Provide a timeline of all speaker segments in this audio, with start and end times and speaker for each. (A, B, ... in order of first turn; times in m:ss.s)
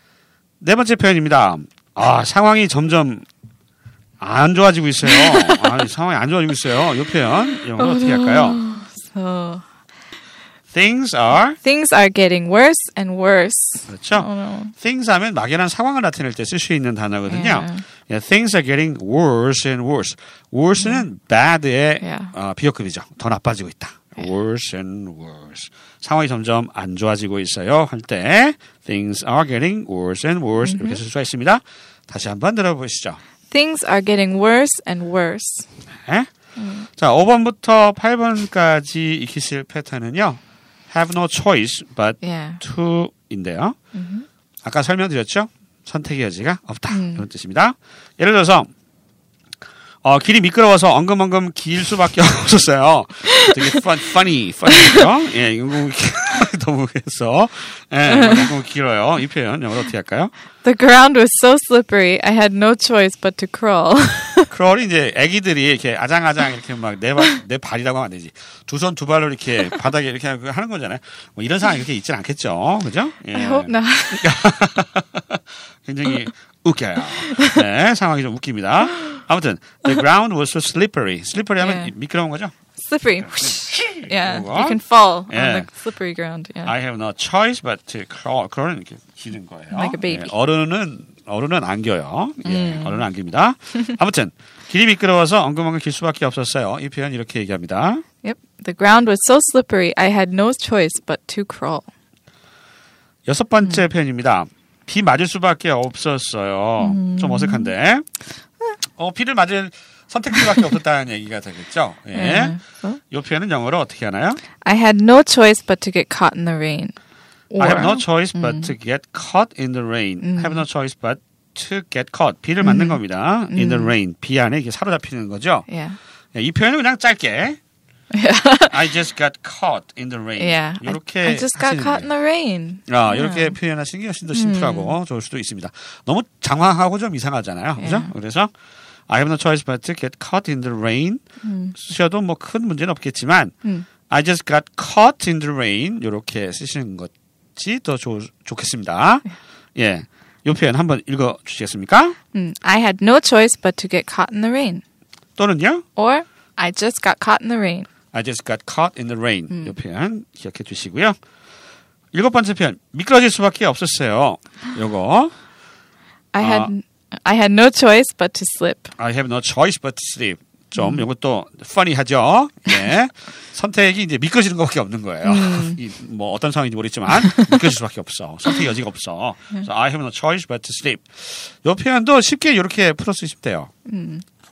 0:00.6-0:03.2 A
0:04.2-0:08.6 A
0:05.0-0:05.7 B
0:07.8-0:09.6 B
0:10.7-0:11.6 A
0:11.6-0:14.7 B
0:13.9-0:33.2 A
0:17.3-0:17.8 B
0:22.0-0:22.3 B
0:30.6-0:31.0 B
0:33.5-0:35.7 B
0:36.6-0:36.9 B
0:36.9-0:40.4 A
0:40.9-0:43.8 A
0:42.2-0:42.6 B
0:43.9-0:44.2 B
0:44.6-0:48.7 A
0:46.9-0:47.2 B
0:50.0-1:00.3 A
0:53.3-0:53.6 B
0:54.7-0:55.0 B
0:58.1-0:58.5 B
1:00.6-1:04.5 B
1:04.5-1:22.6 A
1:13.3-1:14.3 B
1:17.3-1:17.6 B
1:21.6-1:21.9 B
1:22.8-1:26.7 B
1:23.3-1:25.7 A
1:26.6-1:38.0 A
1:29.7-1:30.3 B
1:32.4-1:33.0 B
1:38.2-1:41.9 B
1:43.2-1:48.1 A
1:46.8-1:47.7 B
1:49.0-1:54.4 A
1:52.1-1:53.0 B
1:54.6-1:56.9 B
1:57.5-1:58.7 B
1:57.6-2:05.7 A
2:00.2-2:00.6 B
2:02.6-2:03.0 B
2:03.5-2:03.9 B
2:05.7-2:06.0 B
2:06.3-2:07.6 A
2:08.1-2:08.8 B
2:08.7-2:12.1 A
2:10.4-2:13.6 B
2:12.9-2:18.5 A
2:14.3-2:15.0 B
2:17.8-2:18.1 B
2:19.1-2:21.2 A
2:21.4-2:21.8 B
2:21.8-2:23.5 A
2:24.1-2:29.2 A
2:29.8-2:32.2 A
2:32.3-2:34.8 B
2:35.4-2:35.8 A
2:36.0-2:37.9 B
2:38.1-2:41.2 A
2:39.5-2:39.8 B
2:42.1-2:45.3 A
2:46.3-2:48.9 B
2:46.4-2:46.7 A
2:49.0-3:03.7 A
2:50.8-2:51.0 B
2:55.2-2:55.8 B
2:57.2-2:57.6 B
3:03.9-3:04.2 B